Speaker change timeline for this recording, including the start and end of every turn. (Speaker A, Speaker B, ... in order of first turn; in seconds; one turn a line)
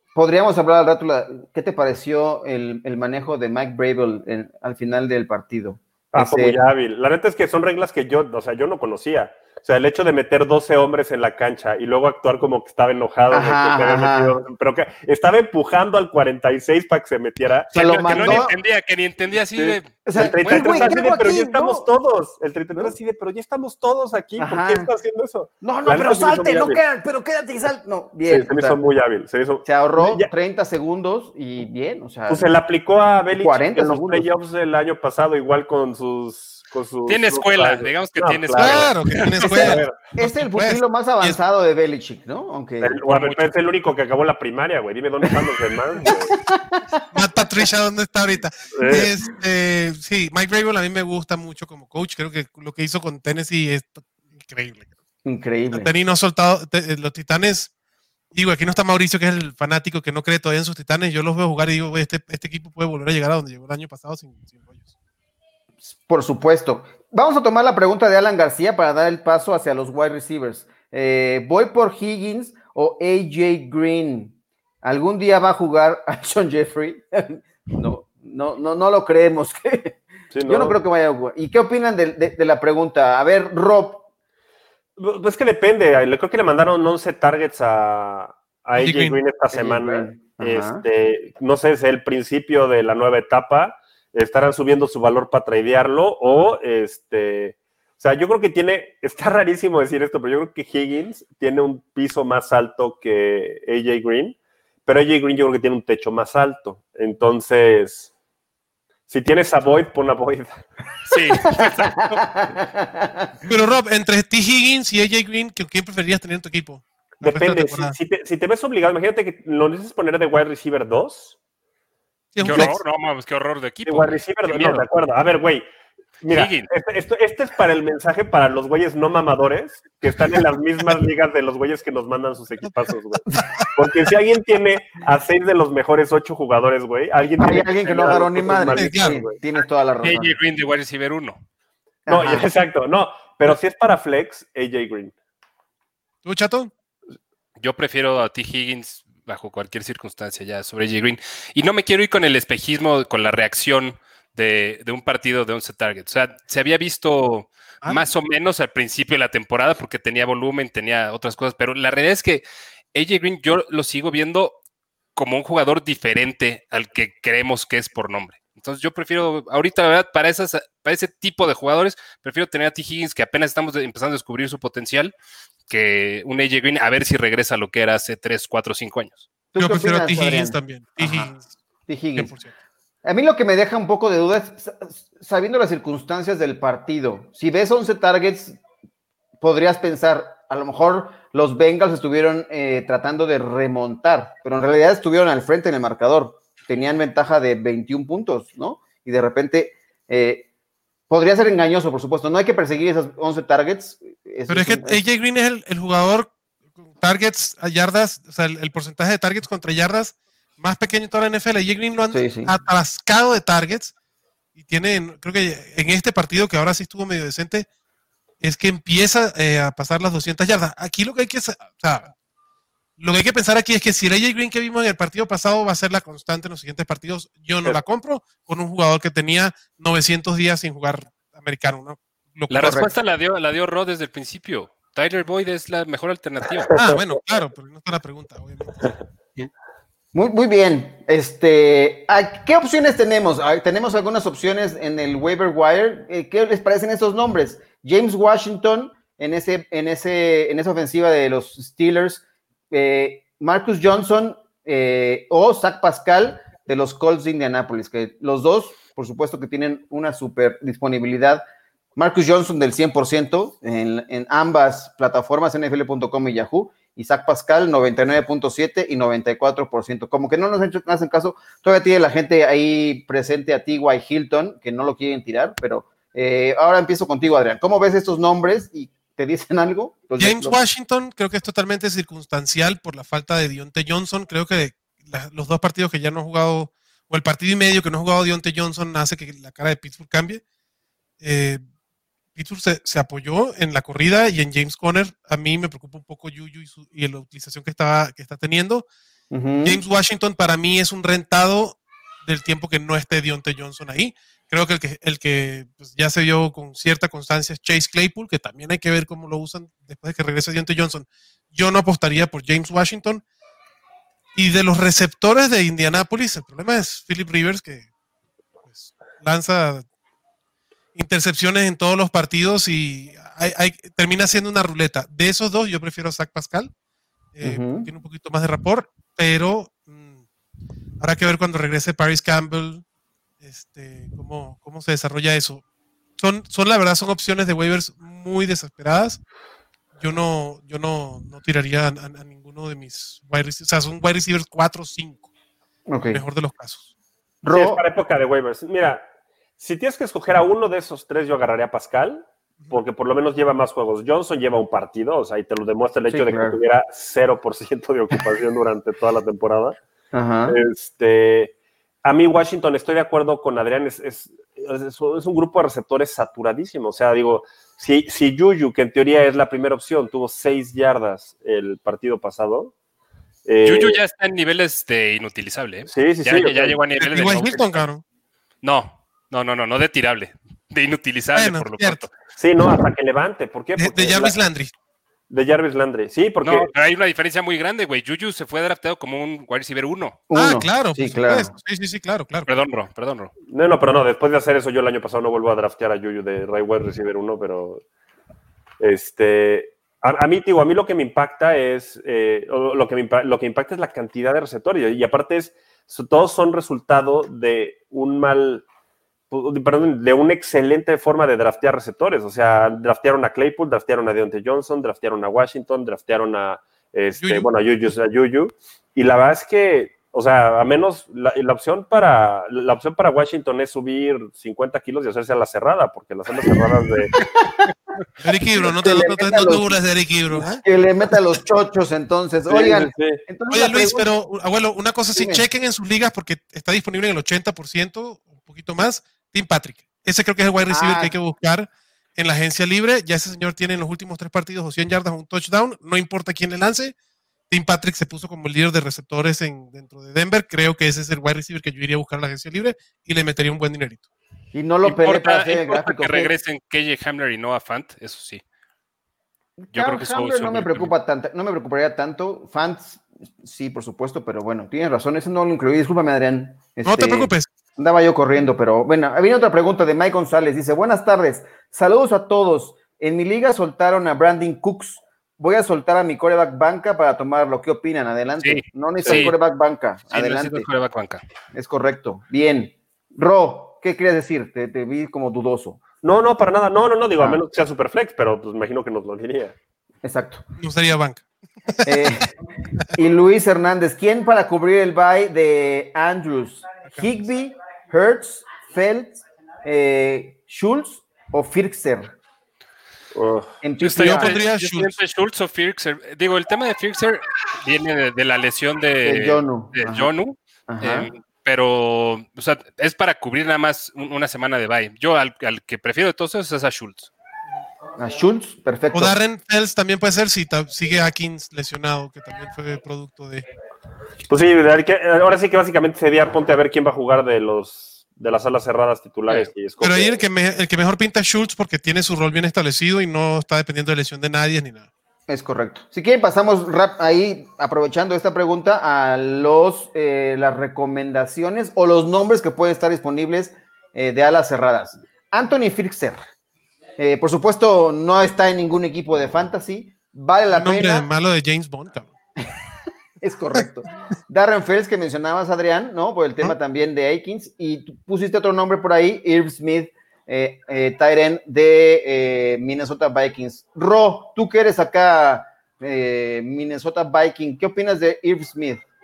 Speaker A: 0.1-6.6
Speaker B: 6.1-18.5
Speaker A: 13.3-14.4
Speaker C: 17.7-21.0
Speaker A: 17.7-18.5
Speaker B: 19.6-26.8
Speaker A: 20.0-21.9
Speaker A: 24.4-24.9
Speaker A: 25.6-28.8
Speaker B: 28.2-30.3
Speaker A: 29.6-32.5
Speaker B: 32.3-40.0
Speaker A: 33.4-34.3
Speaker C: 37.1-39.5
Speaker D: 38.5-41.4
Speaker A: 39.5-43.0
Speaker B: 42.8-46.4
Speaker C: 43.1-43.5
Speaker A: 46.0-46.8
Speaker D: 47.1-54.9
Speaker B: 48.7-49.1
Speaker A: 55.2-55.9
Speaker D: 55.7-57.7
Speaker D: 58.3-64.8
Speaker A: 65.9-84.0
Speaker B: 80.3-80.8
Speaker B: 85.0-108.1
Speaker D: 88.8-89.2
Speaker A: 89.5-90.8
Speaker B: 109.1-110.5
Speaker C: 111.1-112.2
Speaker A: 111.6-113.3
Speaker D: 113.5-118.0
Speaker B: 117.2-121.4
Speaker D: 122.3-122.8
Speaker C: 122.4-124.8
Speaker B: 123.9-125.6
Speaker B: 126.2-139.3
Speaker C: 126.3-126.7
Speaker A: 133.3-133.7
Speaker A: 137.4-140.3
Speaker D: 138.8-139.2
Speaker C: 140.0-141.4
Speaker A: 142.1-142.5
Speaker B: 142.1-145.1
Speaker D: 146.2-146.7
Speaker C: 147.6-162.4
Speaker D: 157.8-158.1
Speaker C: 162.9-164.6
Speaker C: 165.2-175.1
Speaker C: 175.7-179.3
Speaker A: 179.5-181.3
Speaker D: 179.6-181.5
Speaker A: 181.9-182.3
Speaker D: 182.2-182.5
Speaker A: 183.0-188.6
Speaker A: 189.4-200.4
Speaker A: 201.1-205.0
Speaker D: 204.5-206.3
Speaker D: 206.9-213.9
Speaker A: 212.1-212.5
Speaker D: 214.6-217.7
Speaker D: 218.4-222.1
Speaker D: 223.0-232.9
Speaker C: 232.5-236.7
Speaker A: 232.6-232.9
Speaker B: 236.7-237.0
Speaker D: 236.7-238.8
Speaker A: 240.1-261.4
Speaker A: 262.0-280.6
Speaker D: 280.2-290.4
Speaker D: 291.2-291.6
Speaker D: 292.3-298.9
Speaker A: 299.3-299.8
Speaker D: 299.6-313.2
Speaker D: 314.3-317.9
Speaker D: 318.7-319.8
Speaker D: 320.9-326.7
Speaker D: 327.3-330.1
Speaker A: 327.4-327.9
Speaker D: 331.0-332.8
Speaker D: 333.4-335.6
Speaker D: 336.2-339.2
Speaker D: 340.0-345.3
Speaker A: 345.9-346.2
Speaker D: 346.1-346.9
Speaker A: 347.4-347.8
Speaker B: 347.5-349.1
Speaker B: 349.6-359.8
Speaker A: 356.1-356.6
Speaker A: 360.1-360.6
Speaker B: 360.5-361.5
Speaker B: 362.0-372.7
Speaker B: 373.4-374.0
Speaker C: 373.6-377.9
Speaker B: 375.9-376.8
Speaker D: 377.0-378.0
Speaker C: 378.6-382.1
Speaker D: 381.3-382.0
Speaker B: 382.4-384.4
Speaker D: 383.8-384.7
Speaker B: 385.3-386.7
Speaker C: 386.4-390.2
Speaker A: 390.3-391.5
Speaker D: 390.3-392.5
Speaker C: 392.5-393.3
Speaker B: 393.5-397.8
Speaker B: 398.8-408.6
Speaker B: 409.3-427.1
Speaker D: 417.2-417.5
Speaker D: 428.2-430.6
Speaker A: 428.6-429.8
Speaker A: 430.3-434.1
Speaker B: 432.5-433.2
Speaker D: 433.5-446.9
Speaker A: 435.1-435.4
Speaker A: 440.7-441.1
Speaker D: 447.5-454.0
Speaker A: 454.5-456.3
Speaker C: 454.8-458.4
Speaker A: 459.6-480.7
Speaker C: 459.7-460.9
Speaker D: 466.8-467.5
Speaker C: 478.4-479.4
Speaker B: 479.0-479.3
Speaker C: 480.1-481.2
Speaker A: 481.5-485.8
Speaker B: 486.0-489.5
Speaker A: 490.0-490.4
Speaker D: 490.6-492.1
Speaker A: 491.8-492.3
Speaker A: 492.9-502.1
Speaker B: 503.1-503.5
Speaker A: 503.6-504.4
Speaker C: 503.8-517.1
Speaker D: 504.0-504.9
Speaker A: 509.0-510.1
Speaker A: 510.7-511.1
Speaker A: 518.0-519.1
Speaker D: 518.9-523.5
Speaker B: 524.3-530.2
Speaker D: 529.8-534.9
Speaker A: 535.3-546.2
Speaker A: 547.0-551.0
Speaker D: 550.5-552.1
Speaker A: 553.2-568.8